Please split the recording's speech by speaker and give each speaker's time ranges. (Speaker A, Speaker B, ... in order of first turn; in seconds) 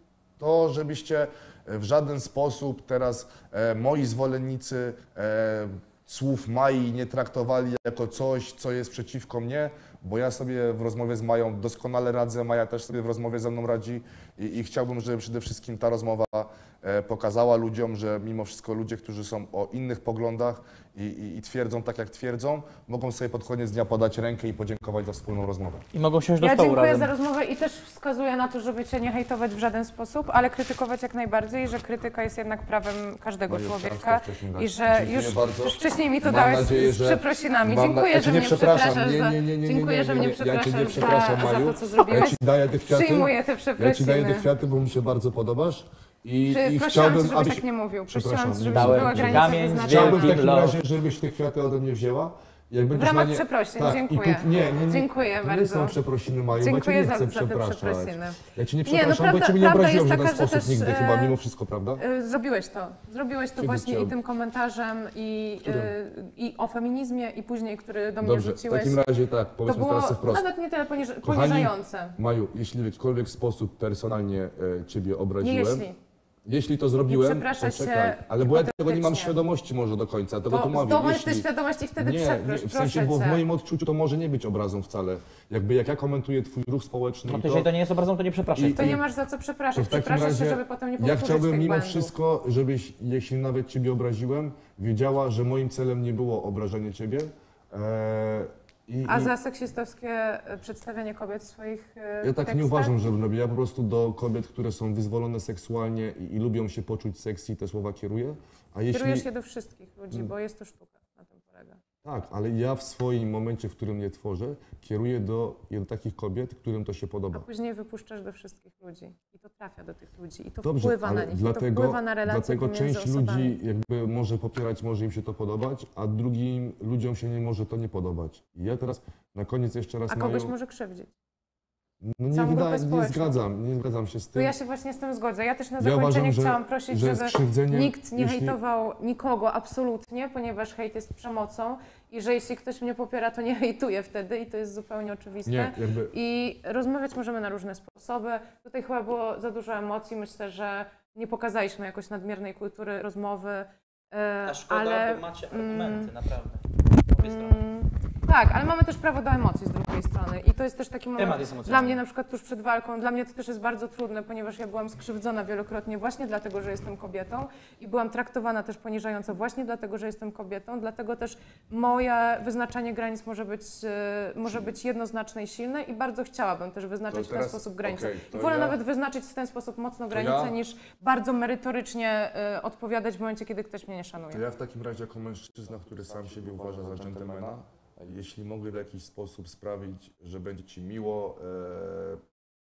Speaker A: 0.4-25.9, 33.5-62.0, 63.6-64.2, 65.6-66.0, 68.2-70.5, 71.2-75.9, 76.5-81.5, 82.0-87.7, 88.6-89.0, 89.7-99.3, 102.2-109.3, 112.0-117.5, 120.6-130.5, 132.0-134.5, 135.8-138.6, 145.5-146.1, 177.1-178.8, 180.1-180.6, 184.3-192.2
Speaker B: 25.9-27.1, 48.7-50.8, 87.2-89.0, 154.4-157.6, 161.2-162.0
Speaker C: 26.4-44.5, 46.5-50.4, 52.9-56.0, 56.6-61.4, 62.0-69.1, 69.7-72.2, 75.4-76.0, 77.1-79.3, 80.5-83.4, 88.8-92.1, 99.1-103.1, 108.9-111.8, 117.3-123.6, 130.1-131.1, 132.3-133.4, 134.3-156.1, 157.2-184.4